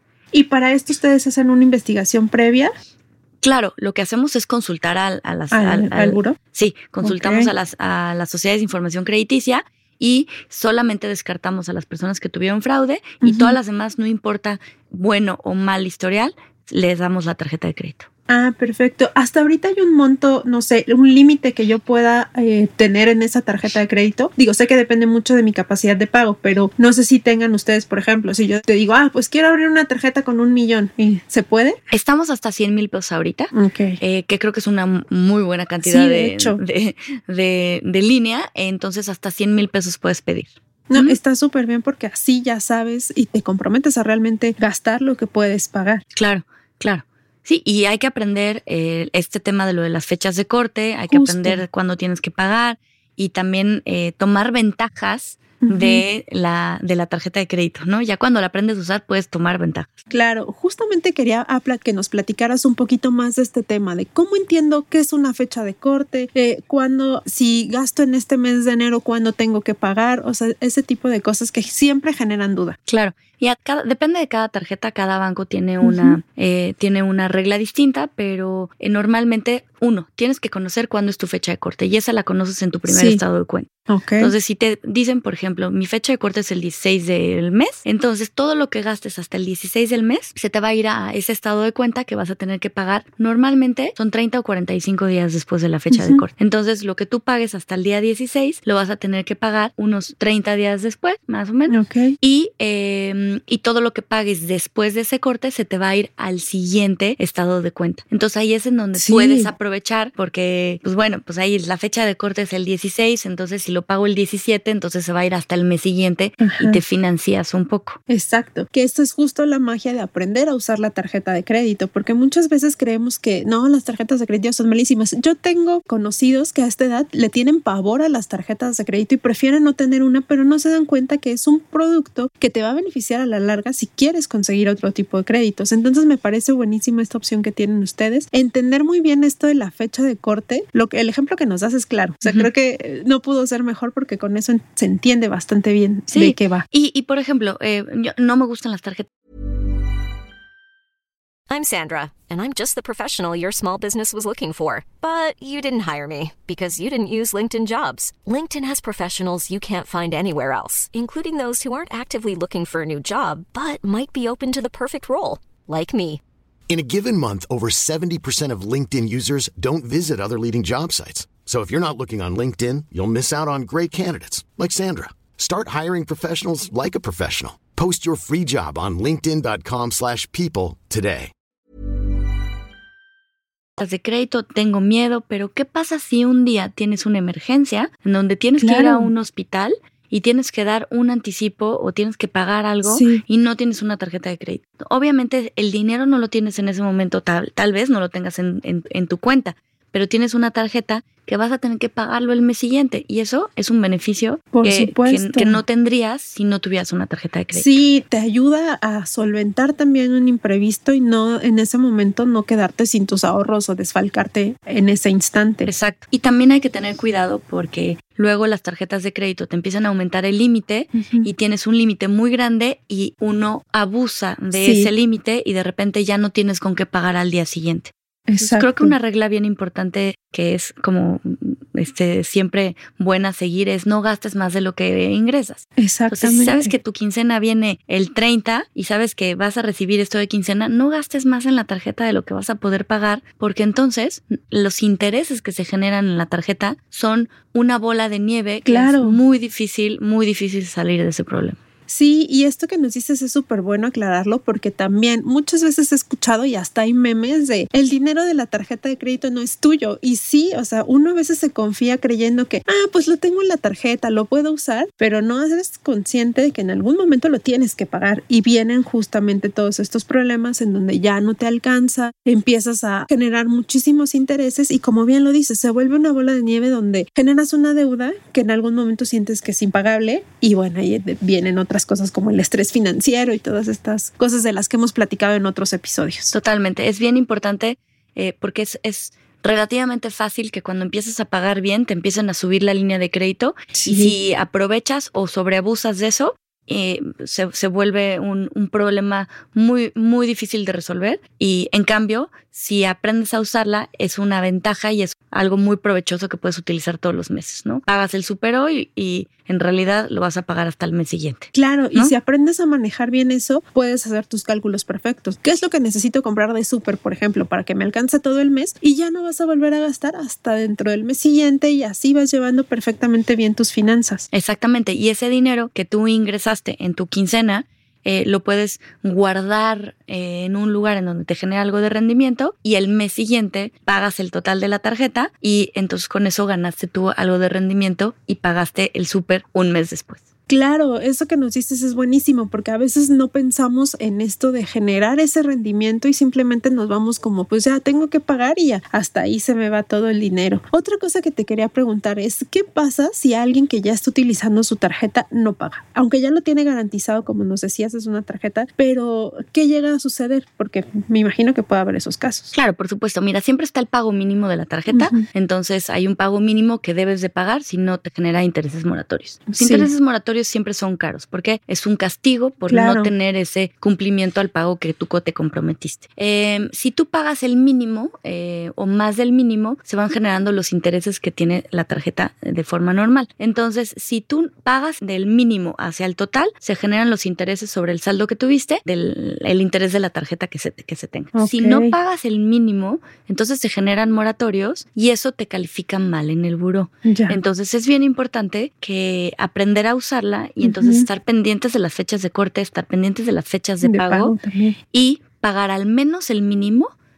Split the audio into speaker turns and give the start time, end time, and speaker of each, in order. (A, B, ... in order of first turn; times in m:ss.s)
0:00.3-0:02.7 A
0:03.4-0:18.1 B
0:05.5-0:06.4 A
0:07.0-0:07.5 A
0:13.2-0:13.6 A
0:18.3-0:31.8 A
0:31.9-0:41.2 B
0:33.5-0:34.0 A
0:35.8-0:36.6 A
0:40.9-0:46.0 A
0:46.2-1:00.0 B
0:51.1-0:51.6 A
0:55.6-0:56.0 A
1:00.1-1:12.8 A
1:12.9-1:58.0 B
1:15.8-1:16.2 A
1:22.9-1:23.2 A
1:23.9-1:24.3 A
1:35.9-1:36.2 A
1:41.7-1:42.2 A
1:49.0-1:49.5 A
1:56.4-1:56.8 A
1:58.1-2:26.6 A
2:26.1-2:29.1 B
2:31.5-2:46.2 C
2:46.7-3:01.3 D
3:03.8-3:27.8 B
3:08.6-3:09.1 A
3:12.8-3:13.2 A
3:24.5-3:25.6 A
3:27.5-3:35.7 A
3:35.6-4:11.6 B
3:41.0-3:41.3 A
3:44.5-3:44.9 A
3:48.3-3:48.9 A
3:55.8-3:56.7 A
4:08.7-4:09.2 A
4:11.9-4:46.3 A
4:46.3-5:12.1 B
4:53.7-4:54.1 A
5:11.5-5:24.2 A
5:24.3-5:40.2 B
5:40.5-6:02.5 A
6:02.5-6:44.3 B
6:04.9-6:05.2 A
6:09.5-6:09.9 A
6:12.7-6:13.1 A
6:31.4-6:31.9 A
6:37.0-6:37.4 A
6:40.6-6:41.1 A
6:43.8-6:44.8 A
6:44.9-6:46.9 B